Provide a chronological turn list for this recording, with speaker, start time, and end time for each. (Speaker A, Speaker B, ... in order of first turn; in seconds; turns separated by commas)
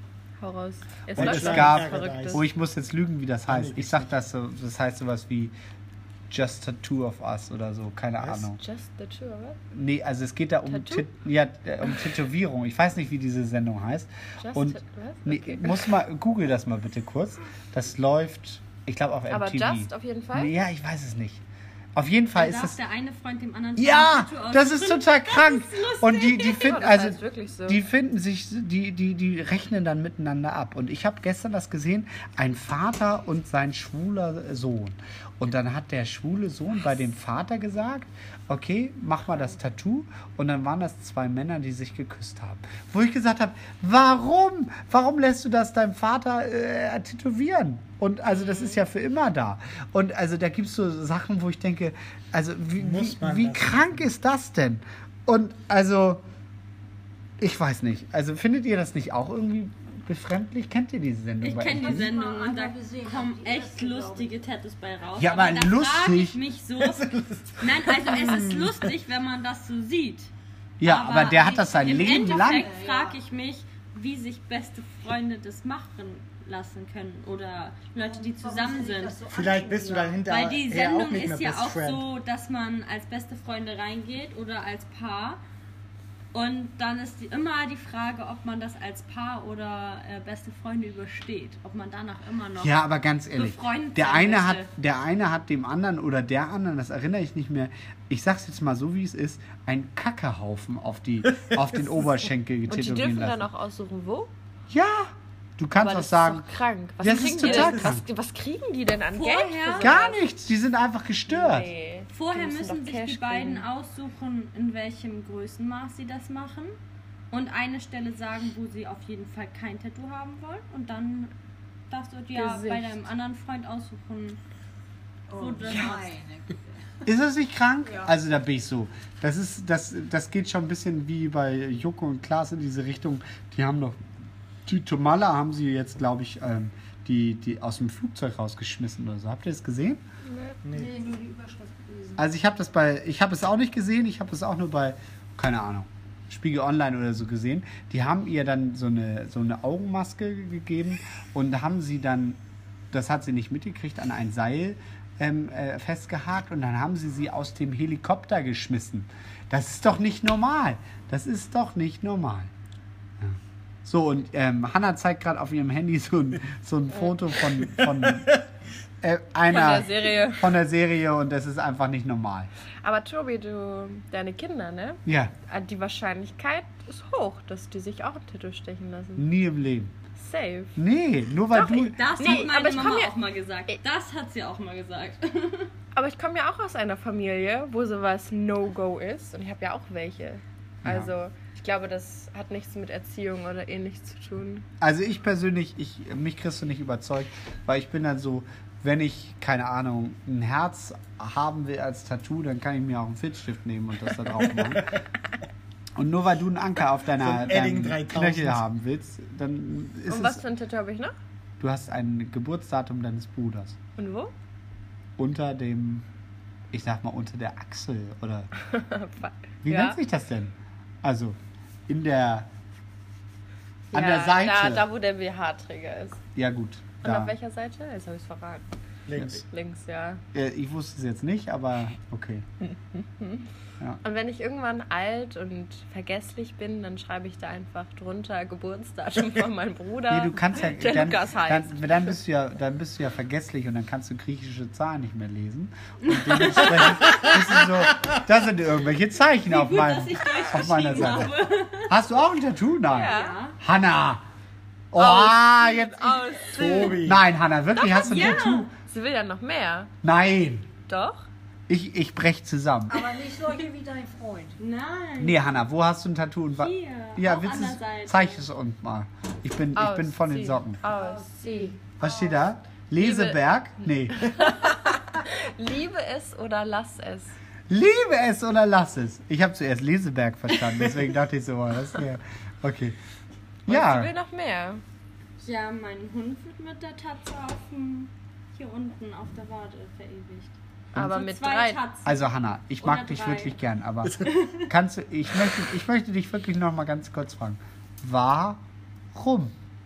Speaker A: 0.4-2.4, Speaker B: 1.1-5.5, Speaker C: 1.1-2.4, Speaker C: 3.5-4.1, Speaker B: 6.3-8.6, Speaker C: 8.2-8.5, Speaker A: 8.6-9.6, Speaker B: 9.7-21.4, Speaker A: 10.7-11.1, Speaker A: 14.4-15.8, Speaker A: 19.3-20.5, Speaker B: 21.9-22.8, Speaker D: 22.3-26.8, Speaker B: 23.8-56.2, Speaker A: 26.6-27.8, Speaker C: 52.8-54.1, Speaker B: 57.4-62.1, Speaker D: 61.4-70.3, Speaker E: 61.8-64.4, Speaker B: 65.2-66.4, Speaker C: 66.9-68.8, Speaker B: 70.8-72.7, Speaker D: 70.8-79.2, Speaker E: 71.7-73.2, Speaker E: 78.0-80.2, Speaker C: 79.3-82.0, Speaker D: 80.2-85.4, Speaker D: 86.3-92.8, Speaker B: 92.6-103.5, Speaker D: 93.3-94.7, Speaker A: 102.7-104.3, Speaker B: 104.7-108.0, Speaker A: 105.8-110.2, Speaker D: 109.1-110.1, Speaker B: 109.8-111.7, Speaker A: 111.3-113.7, Speaker D: 112.1-116.7, Speaker D: 117.3-121.3, Speaker D: 121.9-124.4, Speaker A: 122.3-122.9, Speaker E: 125.3-127.0, Speaker D: 125.3-126.1, Speaker B: 127.0-134.0, Speaker E: 127.8-128.1, Speaker B: 134.7-140.0, Speaker C: 140.6-140.9, Speaker E: 140.7-142.3, Speaker B: 142.2-152.4, Speaker B: 152.9-162.5, Speaker B: 163.2-168.4, Speaker C: 167.6-168.4, Speaker B: 169.0-172.5, Speaker A: 169.5-170.5, Speaker A: 172.8-179.3, Speaker B: 175.1-175.3, Speaker B: 179.2-179.9, Speaker A: 180.2-180.8, Speaker B: 180.8-182.4, Speaker D: 181.5-185.7, Speaker A: 182.2-183.1, Speaker A: 185.9-194.7, Speaker B: 190.8-191.1, Speaker B: 194.8-205.0, Speaker C: 204.4-205.0, Speaker B: 205.9-210.4, Speaker C: 207.2-208.6, Speaker A: 210.1-211.1, Speaker B: 211.6-213.8, Speaker A: 214.0-214.3, Speaker B: 215.2-216.1, Speaker B: 216.7-218.5, Speaker A: 218.6-220.0, Speaker B: 219.6-221.3, Speaker B: 221.9-222.5, Speaker B: 223.9-224.8, Speaker A: 223.9-226.2, Speaker B: 226.3-227.3, Speaker A: 227.0-228.7, Speaker C: 229.1-229.4, Speaker A: 229.4-230.2, Speaker B: 230.3-232.4, Speaker A: 233.0-233.4, Speaker A: 234.0-242.1, Speaker B: 240.1-254.2, Speaker D: 246.0-247.4, Speaker D: 249.5-251.9, Speaker A: 252.9-253.4, Speaker D: 253.0-253.6, Speaker B: 254.9-258.7, Speaker A: 254.9-257.0, Speaker C: 256.5-257.2, Speaker D: 257.8-258.7, Speaker A: 258.0-259.9, Speaker B: 260.0-260.7, Speaker A: 260.9-261.2, Speaker B: 261.7-263.1, Speaker E: 262.9-264.6, Speaker D: 264.6-265.6, Speaker B: 265.2-270.8, Speaker D: 266.6-268.4, Speaker A: 269.7-271.7, Speaker E: 270.9-272.4, Speaker B: 272.0-274.5, Speaker A: 273.0-273.4, Speaker A: 274.1-277.4, Speaker B: 277.7-283.0, Speaker B: 283.6-284.1, Speaker A: 283.7-284.8, Speaker D: 285.4-292.2, Speaker A: 290.9-291.8, Speaker B: 292.0-298.6, Speaker D: 292.8-293.6, Speaker B: 299.1-299.5